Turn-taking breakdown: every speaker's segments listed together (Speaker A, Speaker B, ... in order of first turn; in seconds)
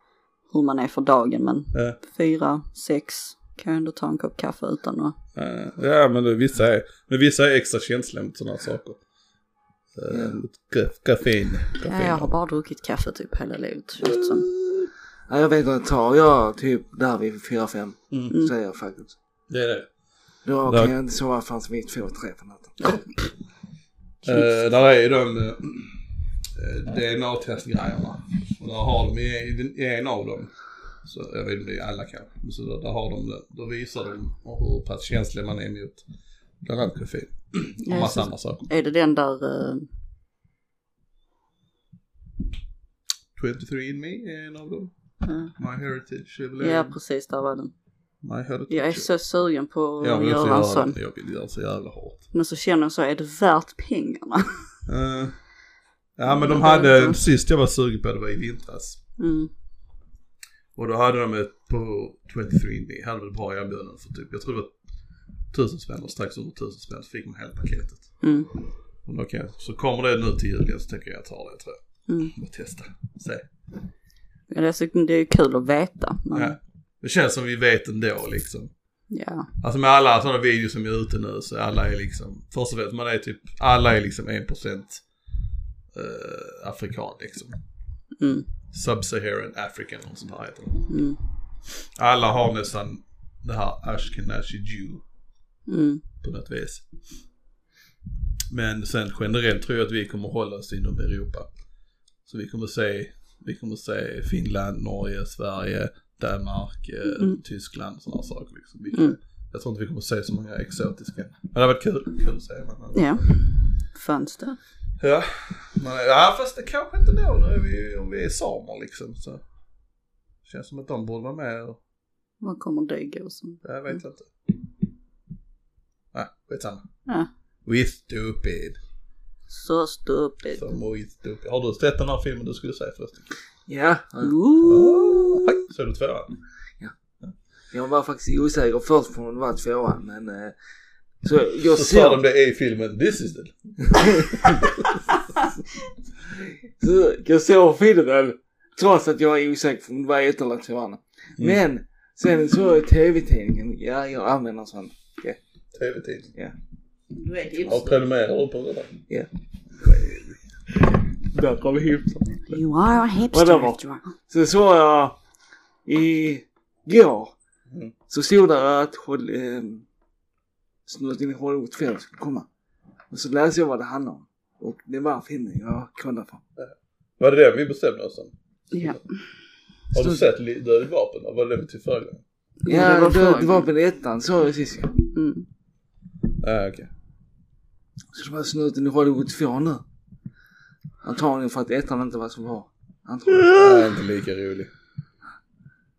Speaker A: 0.5-5.2, 11.8-14.5, 24.2-24.5, 37.8-39.9, 45.2-45.5, 46.6-47.7, 48.7-51.0, 52.3-54.6, 56.3-57.2, 59.2-59.5, 68.2-68.5, 72.1-72.3, 74.5-76.6, 79.1-79.5, 88.2-88.5, 90.9-91.2, 95.7-96.0, 107.1-107.4, 112.9-114.6, 122.4-124.0, 129.5-130.6, 134.2-135.6, 157.2-158.0, 162.5-164.1, 178.7-179.0, 182.6-183.7, 185.1-185.4
Speaker B: 5.3-9.0, 9.9-12.3, 14.0-14.9, 19.5-19.9, 20.7-20.9, 24.2-26.0, 26.6-30.5, 31.1-36.0, 36.6-38.7, 43.4-44.9, 45.6-46.9, 48.2-49.1, 50.0-52.2, 54.9-55.4, 56.2-59.0, 60.8-64.7, 65.5-68.0, 69.1-71.8, 72.3-73.5, 76.3-78.7, 79.6-85.0, 85.9-87.6, 88.7-90.9, 92.0-95.0, 96.2-96.8, 98.5-101.5, 102.3-113.3, 115.0-119.4, 120.4-121.8, 123.6-124.3, 126.1-126.8, 127.7-128.8, 130.6-133.3, 134.6-136.3, 141.7-145.1, 155.7-156.3, 157.6-159.0, 159.8-160.4, 176.6-179.0, 179.9-182.2, 186.4-186.9, 193.4-194.7
Speaker C: 10.1-10.4, 15.3-19.1, 20.4-22.9, 133.7-134.3, 137.7-140.6, 141.2-142.2, 143.9-144.6, 146.3-155.4, 160.7-162.6, 163.3-165.2, 165.9-167.3, 168.1-169.8, 170.9-172.5, 173.1-176.4, 179.9-180.2, 182.7-185.0, 188.1-189.8, 191.0-194.0